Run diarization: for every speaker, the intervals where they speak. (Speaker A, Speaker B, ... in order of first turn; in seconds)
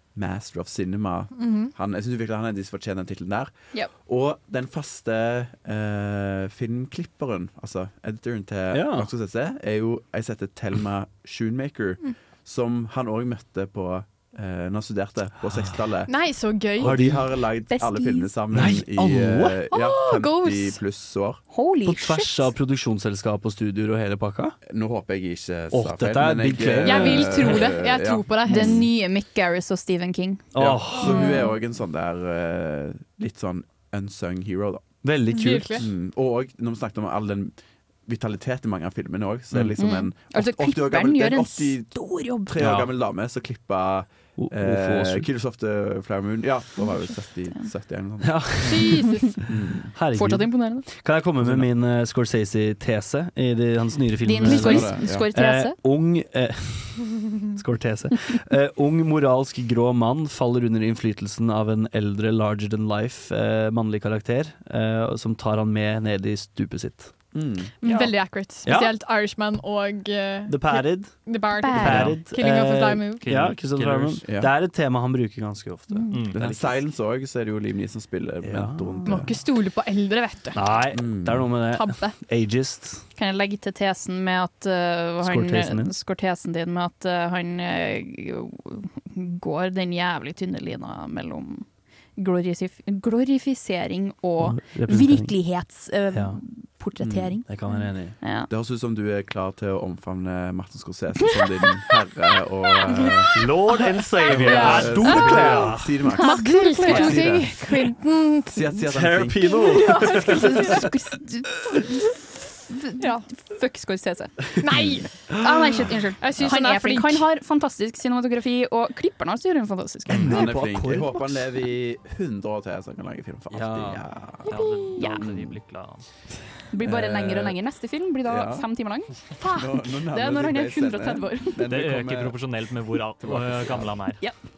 Speaker A: 0.1-16.2, 16.8-21.4, 24.6-28.9, 30.6-34.9, 35.7-48.7, 49.5-49.9, 51.4-51.7, 54.4-55.3, 67.3-67.7, 74.2-74.5, 76.3-79.3, 80.9-81.5, 97.0-97.4, 98.5-103.3, 104.3-107.8, 108.5-109.6, 120.2-125.5, 126.8-127.6, 128.2-128.7, 129.4-132.4, 133.2-134.0
Speaker B: 1.4-1.7, 16.1-16.9, 19.7-20.8, 26.8-28.8, 35.3-35.9, 48.6-49.3, 67.8-73.2, 79.0-80.8, 81.7-82.1, 104.3-105.4, 106.2-108.8, 109.5-110.8, 113.0-113.2, 114.6-115.4, 116.2-117.2, 124.5-125.0
Speaker C: 8.7-9.1, 16.8-17.4, 18.5-19.6, 21.8-24.6, 25.7-27.5, 30.5-31.3, 35.0-35.8, 39.5-39.8, 42.6-42.9, 44.4-45.3, 48.2-49.0, 49.9-67.2, 68.6-68.9, 70.5-76.8, 78.4-79.2, 80.5-83.0, 85.2-85.9, 94.4-95.4, 96.1-96.4, 97.5-98.2, 103.3-106.0, 108.9-110.8, 115.3-115.9, 120.1-121.3, 123.5-124.1
Speaker D: 17.7-18.4, 21.5-22.5, 28.5-31.5, 39.8-42.6, 46.8-47.6, 50.1-50.9, 54.2-55.8, 67.8-68.1, 71.5-72.1, 75.9-76.2, 83.2-91.6, 92.2-98.5, 104.2-107.5, 109.9-114.4, 115.4-120.5, 125.0-125.3, 126.7-131.6
Speaker E: 71.8-72.2, 73.2-74.2, 76.1-76.4, 124.5-126.0, 131.7-134.2